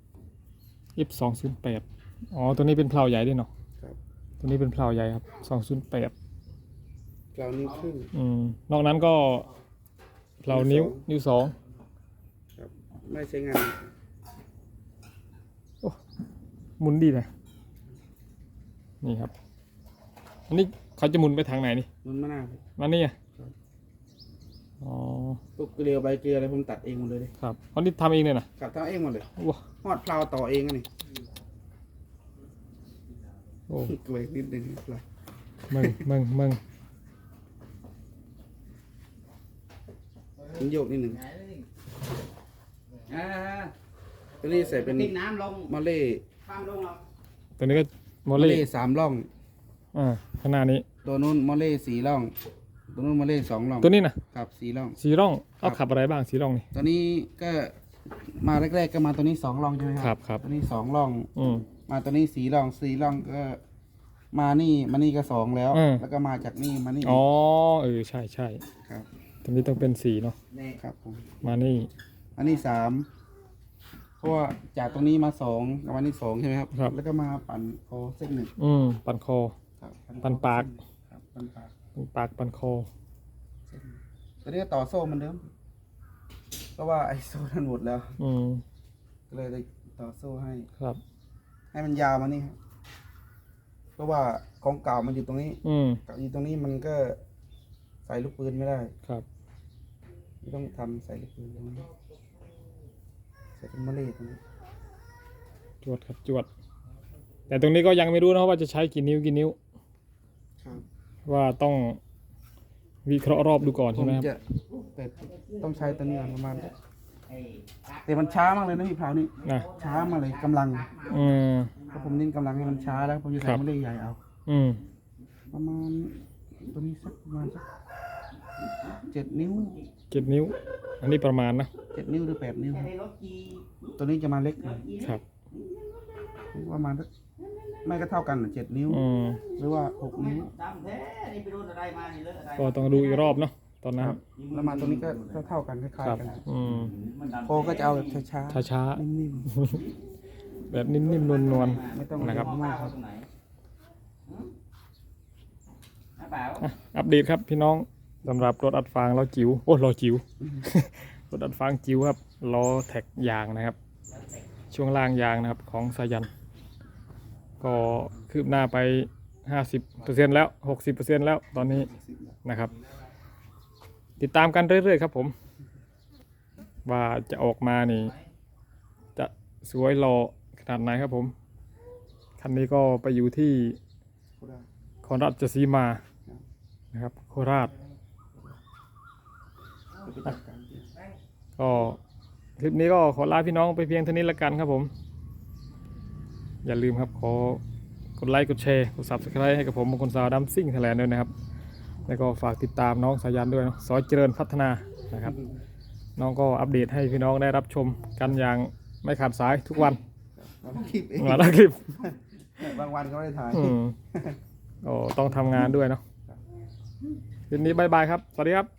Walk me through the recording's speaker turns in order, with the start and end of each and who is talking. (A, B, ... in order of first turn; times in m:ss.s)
0:01.0-0:03.5 A
0:04.4-0:06.1 A
0:07.3-0:08.1 B
0:08.1-0:09.5 A
0:10.4-0:11.5 A
0:10.5-0:11.0 B
0:12.6-0:13.9 B
0:16.8-0:17.3 A
0:19.0-0:19.3 A
0:20.5-0:21.9 A
0:22.0-0:22.6 B
0:22.8-0:23.1 A
0:24.8-0:25.4 A
0:25.6-0:27.3 B
0:27.4-0:28.5 A
0:28.6-0:29.3 B
0:29.8-0:30.9 B
0:33.8-0:35.0 B
0:35.7-0:36.6 A
0:40.5-0:41.3 B
0:43.0-0:43.7 C
0:44.4-0:46.2 B
0:44.5-0:45.7 C
0:46.4-0:47.0 C
0:47.6-0:48.6 A
0:48.3-0:49.3 B
0:49.9-0:50.8 A
0:51.0-0:52.3 B
0:52.9-0:55.0 B
0:53.8-0:54.2 A
0:55.0-0:56.6 A
0:56.7-1:01.3 B
1:00.0-1:00.4 A
1:01.4-1:01.7 A
1:01.9-1:03.6 B
1:04.3-1:07.2 B
1:05.7-1:06.0 A
1:07.0-1:08.6 A
1:08.8-1:09.1 B
1:09.4-1:10.4 A
1:10.7-1:11.4 B
1:11.4-1:11.9 A
1:12.4-1:13.1 B
1:14.2-1:18.5 B
1:18.6-1:19.5 A
1:19.8-1:21.7 B
1:20.2-1:20.7 A
1:22.0-1:22.9 A
1:23.7-1:25.5 B
1:26.8-1:28.2 B
1:28.2-1:28.6 A
1:29.3-1:30.7 B
1:31.7-1:32.6 B
1:34.0-1:37.2 B
1:35.6-1:36.0 A
1:38.0-1:38.9 B
1:40.4-1:41.9 B
1:43.6-1:44.4 B
1:45.8-1:46.5 A
1:47.5-1:49.6 A
1:51.2-1:52.0 A
1:53.0-1:54.3 A
1:53.9-1:54.4 B
1:54.9-1:56.7 B
1:57.3-1:58.0 C
1:58.0-2:00.9 B
1:59.4-2:02.0 C
1:59.4-1:59.7 A
2:01.0-2:01.7 A
2:01.9-2:04.2 B
2:04.5-2:04.8 A
2:05.5-2:07.6 B
2:09.0-2:09.8 B
2:10.1-2:11.7 A
2:11.9-2:12.9 B
2:12.8-2:13.7 C
2:14.0-2:14.9 B
2:14.8-2:15.1 C
2:16.5-2:17.1 B
2:17.8-2:19.0 B
2:18.9-2:19.4 A
2:19.6-2:20.5 B
2:20.3-2:23.3 C
2:22.6-2:24.2 A
2:24.0-2:26.4 B
2:24.4-2:25.4 C
2:26.0-2:26.9 A
2:26.8-2:28.2 C
2:27.4-2:29.5 B
2:28.5-2:29.8 A
2:30.7-2:32.5 A
2:31.0-2:33.2 C
2:31.8-2:33.0 B
2:36.2-2:36.6 C
2:36.6-2:43.8 A
2:44.7-2:46.3 A
2:47.6-2:51.9 A
2:51.6-2:52.4 B
2:52.4-2:52.7 A
2:54.2-2:55.3 A
2:56.8-2:58.1 A
2:59.2-3:01.3 A
3:02.4-3:03.8 A
3:04.4-3:04.7 B
3:05.0-3:06.0 A
3:06.9-3:07.7 A
3:10.0-3:10.9 B
3:11.6-3:12.0 A
3:12.6-3:14.9 A
3:16.6-3:17.6 A
3:18.2-3:21.3 A
3:22.1-3:25.3 A
3:26.2-3:30.0 A
3:30.4-3:34.4 B
3:31.2-3:31.9 A
3:33.5-3:33.9 A
3:34.8-3:36.0 A
3:37.5-3:38.7 A